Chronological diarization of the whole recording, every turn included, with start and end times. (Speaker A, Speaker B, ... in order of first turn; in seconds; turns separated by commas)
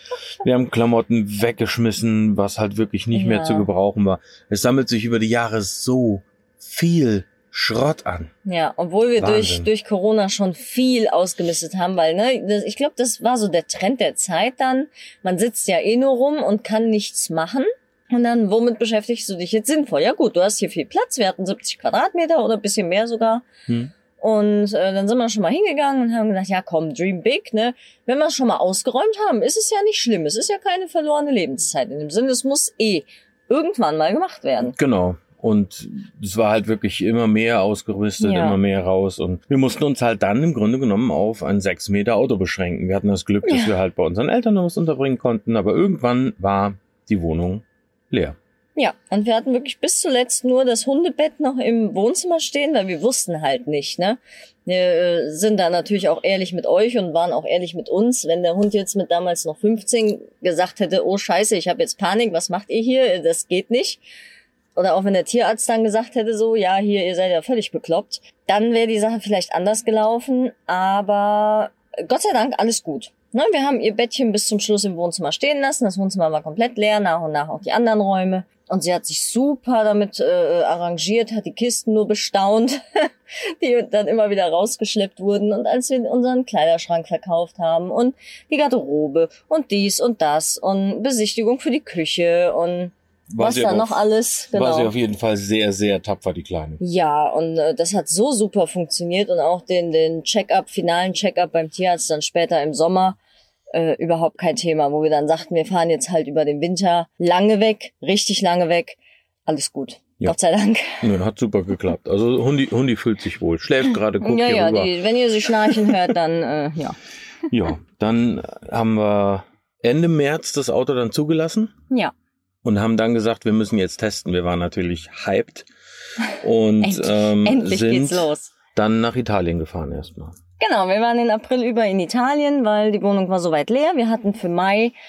Speaker A: 0.4-8.3, Speaker B: 3.1-3.7, Speaker B: 8.4-23.4, Speaker A: 9.2-9.7, Speaker B: 24.2-34.8, Speaker A: 34.7-48.4, Speaker B: 38.2-38.6, Speaker B: 43.4-43.7, Speaker B: 48.8-64.0, Speaker B: 64.8-94.9, Speaker A: 93.3-96.8, Speaker B: 96.8-103.2, Speaker B: 103.7-111.1, Speaker A: 111.0-114.9, Speaker B: 114.2-117.0, Speaker A: 115.7-115.9, Speaker A: 117.5-121.7, Speaker A: 122.6-125.7, Speaker A: 126.3-130.3, Speaker B: 126.8-128.5, Speaker B: 130.6-134.9